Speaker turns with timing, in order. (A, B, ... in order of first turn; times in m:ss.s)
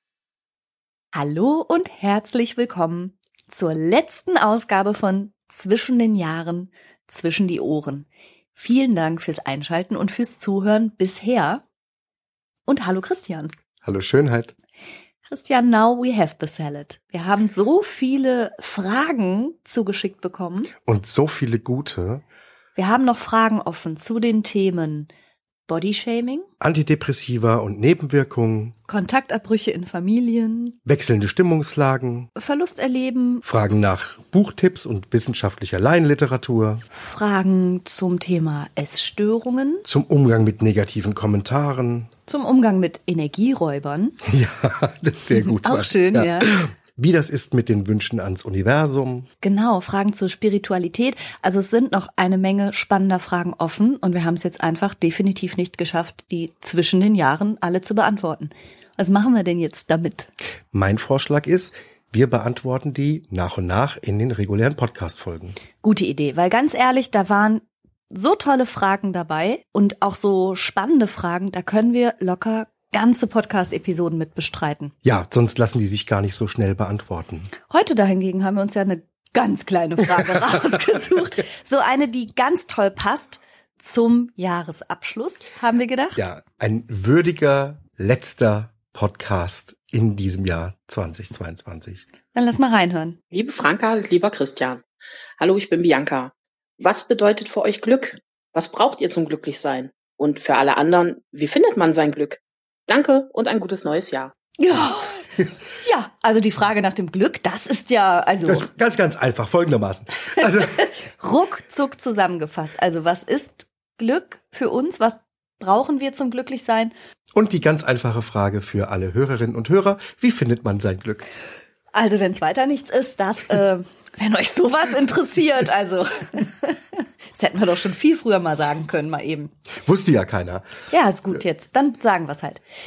0:01.1-0:11.6 A
0:12.7-0:13.5 A
0:13.8-0:14.5 B
0:15.2-0:20.7 A
0:20.8-0:22.2 B
0:22.8-0:25.1 A
0:25.7-0:26.5 A
0:26.6-0:28.7 B
0:28.9-0:30.8 A
0:30.8-0:32.3 B
0:32.4-0:33.4 A
0:33.4-0:36.8 B
0:36.9-0:39.8 A
0:39.8-0:42.1 B
0:42.3-0:44.2 A
0:44.2-0:49.3 B
0:45.3-0:46.6 A
0:49.4-1:00.3 A
1:00.7-1:05.6 B
1:05.8-1:14.9 A
1:15.0-1:17.5 B
1:17.7-1:26.2 A
1:26.2-1:32.0 B
1:32.3-1:33.2 A
1:33.3-1:34.8 C
1:35.4-1:44.3 C
1:44.6-1:48.6 A
1:48.4-1:50.8 B
1:50.4-1:56.9 A
1:57.3-2:01.2 B
2:01.9-2:09.5 A
2:09.8-2:10.6 B
2:10.9-2:12.6 A